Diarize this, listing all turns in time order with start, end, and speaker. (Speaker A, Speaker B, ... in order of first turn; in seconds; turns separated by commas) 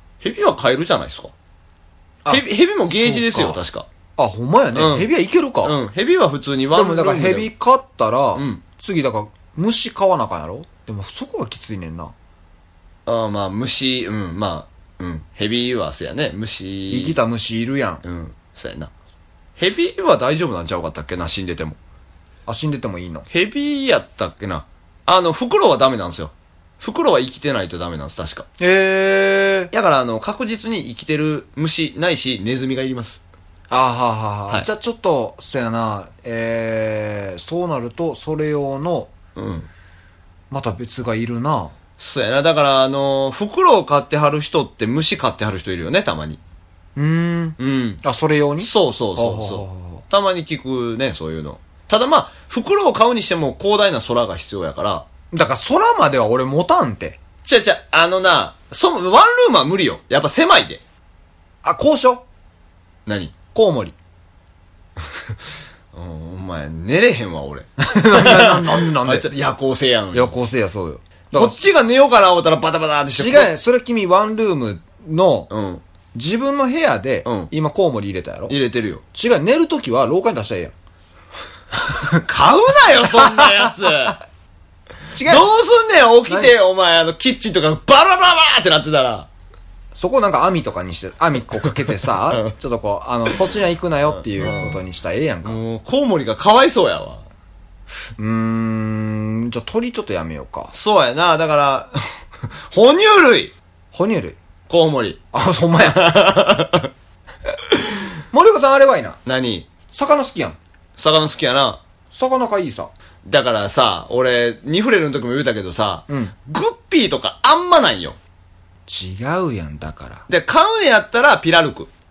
Speaker A: 0.2-1.3, Speaker B: 2.2-3.6, Speaker A: 2.3-3.9, Speaker B: 4.2-5.8, Speaker A: 4.7-5.1, Speaker A: 5.6-7.5, Speaker B: 6.7-12.1, Speaker A: 8.3-8.6, Speaker A: 13.1-17.2, Speaker B: 16.9-18.0, Speaker A: 18.0-18.9, Speaker A: 19.6-21.8, Speaker B: 22.4-23.2, Speaker A: 23.3-28.4, Speaker B: 28.6-29.7, Speaker A: 29.7-33.2, Speaker B: 33.7-39.1, Speaker A: 39.4-39.7, Speaker B: 40.5-41.7, Speaker A: 42.0-46.4, Speaker B: 47.0-50.0, Speaker A: 47.6-48.0, Speaker A: 48.6-55.0, Speaker B: 55.3-57.2, Speaker A: 57.4-60.8, Speaker B: 61.6-62.2, Speaker A: 63.0-63.3, Speaker B: 63.5-63.9, Speaker A: 65.9-70.3, Speaker B: 67.8-69.3, Speaker B: 70.1-71.6, Speaker A: 71.3-73.5, Speaker B: 73.1-75.5, Speaker A: 75.5-75.8, Speaker B: 76.1-78.5, Speaker A: 77.2-77.5, Speaker A: 78.5-79.0, Speaker B: 79.1-80.7, Speaker B: 81.8-82.2, Speaker A: 82.2-84.2, Speaker B: 83.1-83.7, Speaker B: 85.1-85.5, Speaker A: 85.2-89.3, Speaker B: 86.3-86.5, Speaker B: 89.9-95.6, Speaker A: 94.1-94.8, Speaker A: 95.4-97.2, Speaker B: 98.2-100.7, Speaker A: 100.7-102.0, Speaker A: 102.7-103.5, Speaker B: 103.9-104.4, Speaker A: 104.7-105.2, Speaker B: 105.3-106.2, Speaker A: 105.8-106.9, Speaker B: 108.3-109.2, Speaker A: 109.2-109.7, Speaker B: 109.9-110.6, Speaker A: 111.0-111.8, Speaker B: 112.1-112.9, Speaker A: 113.2-118.2, Speaker B: 116.1-116.3, Speaker B: 118.9-120.2, Speaker A: 120.3-121.9